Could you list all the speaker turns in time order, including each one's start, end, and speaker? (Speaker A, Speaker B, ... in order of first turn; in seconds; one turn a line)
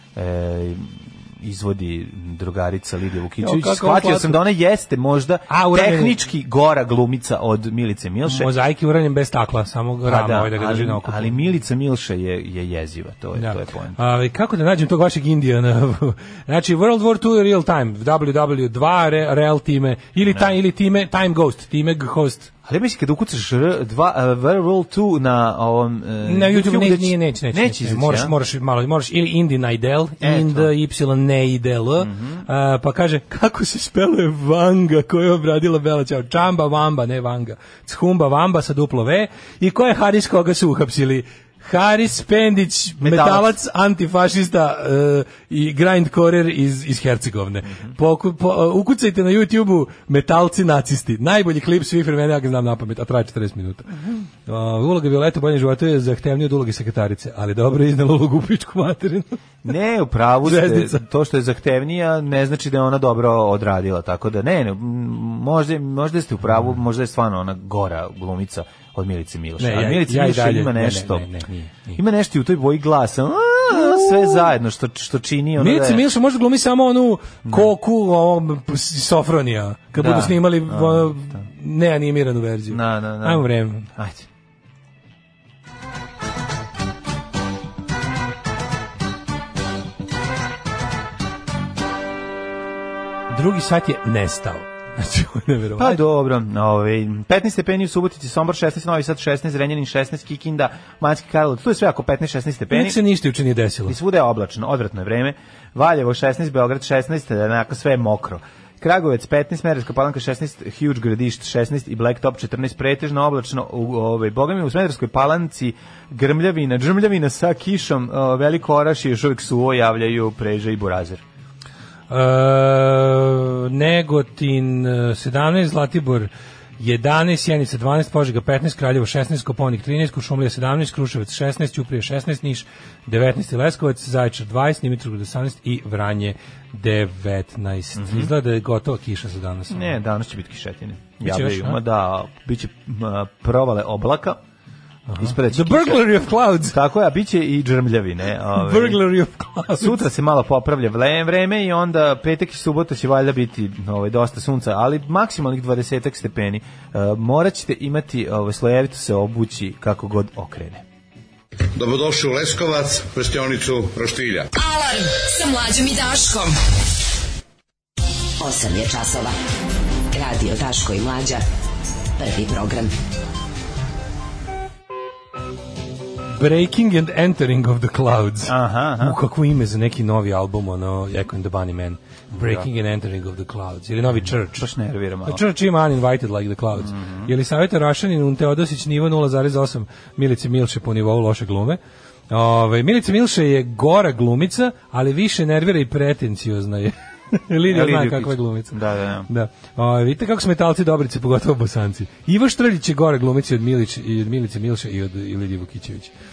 Speaker A: 0.1-8.5
Speaker B: 3.4-4.4
Speaker B: 5.5-6.2
Speaker B: 8.3-11.4
Speaker A: 10.0-14.0
Speaker B: 13.4-22.5
Speaker A: 20.2-20.5
Speaker A: 22.6-28.3
Speaker B: 26.2-59.3
Speaker A: 30.2-30.7
Speaker A: 32.0-32.5
Speaker A: 43.0-43.6
Speaker A: 59.6-71.3
Speaker B: 60.4-61.0
Speaker B: 69.6-72.0
Speaker A: 72.0-76.0
Speaker B: 73.8-74.2
Speaker B: 75.6-83.9
Speaker A: 77.5-77.7
Speaker A: 80.0-81.4
Speaker A: 82.7-84.3
Speaker B: 93.3-96.0
Speaker A: 95.8-103.0
Speaker B: 102.7-104.0
Speaker A: 103.8-121.2
Speaker B: 122.1-140.0
Speaker A: 137.9-138.3
Speaker A: 139.7-144.4
Speaker B: 141.2-141.8
Speaker B: 145.1-146.8
Speaker A: 145.2-146.1
Speaker A: 146.6-149.0
Speaker B: 148.6-150.0
Speaker A: 149.8-160.8
Speaker C: 161.8-164.5
Speaker D: 164.5-166.6
Speaker E: 168.4-169.3
Speaker E: 170.1-171.4
Speaker E: 172.2-172.9
Speaker B: 176.4-184.7
Speaker A: 178.4-179.2
Speaker A: 182.3-182.7
Speaker A: 184.6-185.4
Speaker B: 185.2-191.8
Speaker A: 186.8-187.3
Speaker B: 192.3-206.1
Speaker A: 197.7-199.3